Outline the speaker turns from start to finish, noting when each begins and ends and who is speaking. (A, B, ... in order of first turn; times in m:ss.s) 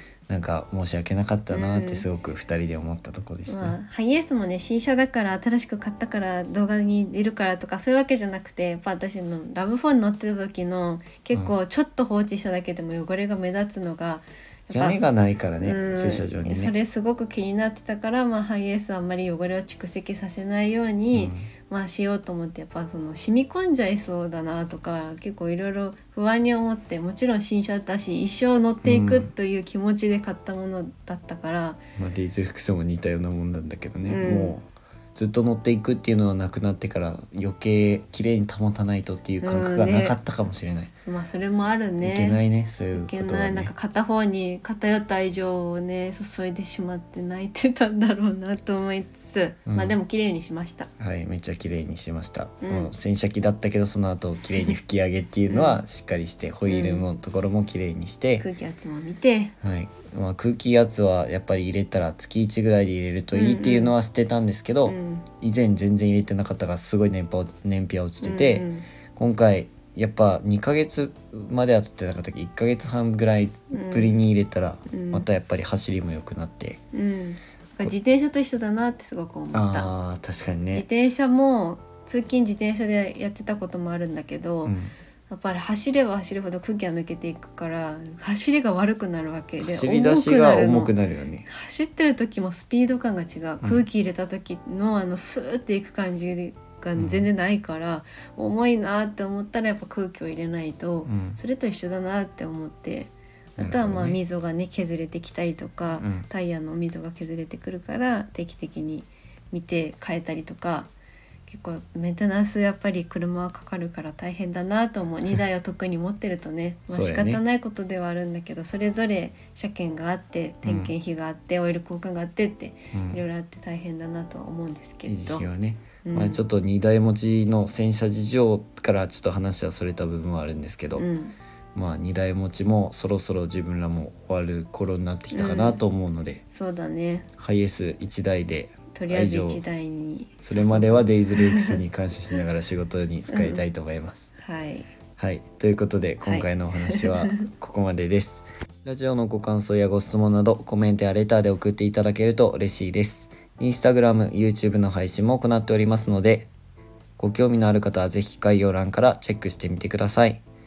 0:00.3-0:03.8 A
0:01.5-0:02.1 B
0:03.5-0:15.0 B
0:14.7-0:16.7 A
0:15.6-0:31.8 B
0:21.1-0:21.5 A
0:28.8-0:29.3 A
0:32.0-0:40.9 A
0:34.1-0:34.6 B
0:39.4-0:40.2 B
0:41.1-0:42.4 B
0:42.0-0:43.7 A
0:42.9-0:50.9 B
0:49.7-0:50.0 A
0:51.0-0:58.5 A
0:52.6-0:52.9 B
0:55.5-0:55.8 B
0:56.7-0:57.2 B
0:58.4-0:59.5 B
0:59.6-1:16.8 A
1:03.3-1:04.0 B
1:04.8-1:05.3 B
1:08.2-1:08.9 B
1:13.7-1:14.2 B
1:14.9-1:15.3 B
1:16.9-1:19.9 B
1:19.5-1:20.9 A
1:20.7-1:24.8 B
1:24.6-1:24.9 A
1:25.3-1:31.0 B
1:29.6-1:31.5 A
1:31.5-1:50.9 B
1:37.0-1:37.2 A
1:41.1-1:41.4 A
1:43.6-1:44.2 A
1:46.0-1:46.3 A
1:51.5-2:05.5 B
1:56.9-1:57.4 A
2:00.6-2:00.9 A
2:02.9-2:03.2 A
2:05.1-2:11.1 A
2:06.0-2:06.4 B
2:11.0-2:11.4 B
2:11.8-2:16.4 A
2:15.3-2:15.8 B
2:16.5-2:17.3 B
2:17.4-2:19.6 A
2:18.9-2:21.8 B
2:20.4-2:24.3 A
2:23.3-2:23.6 B
2:24.4-2:24.9 B
2:25.2-2:36.5 A
2:26.2-2:27.5 B
2:37.2-2:40.4 A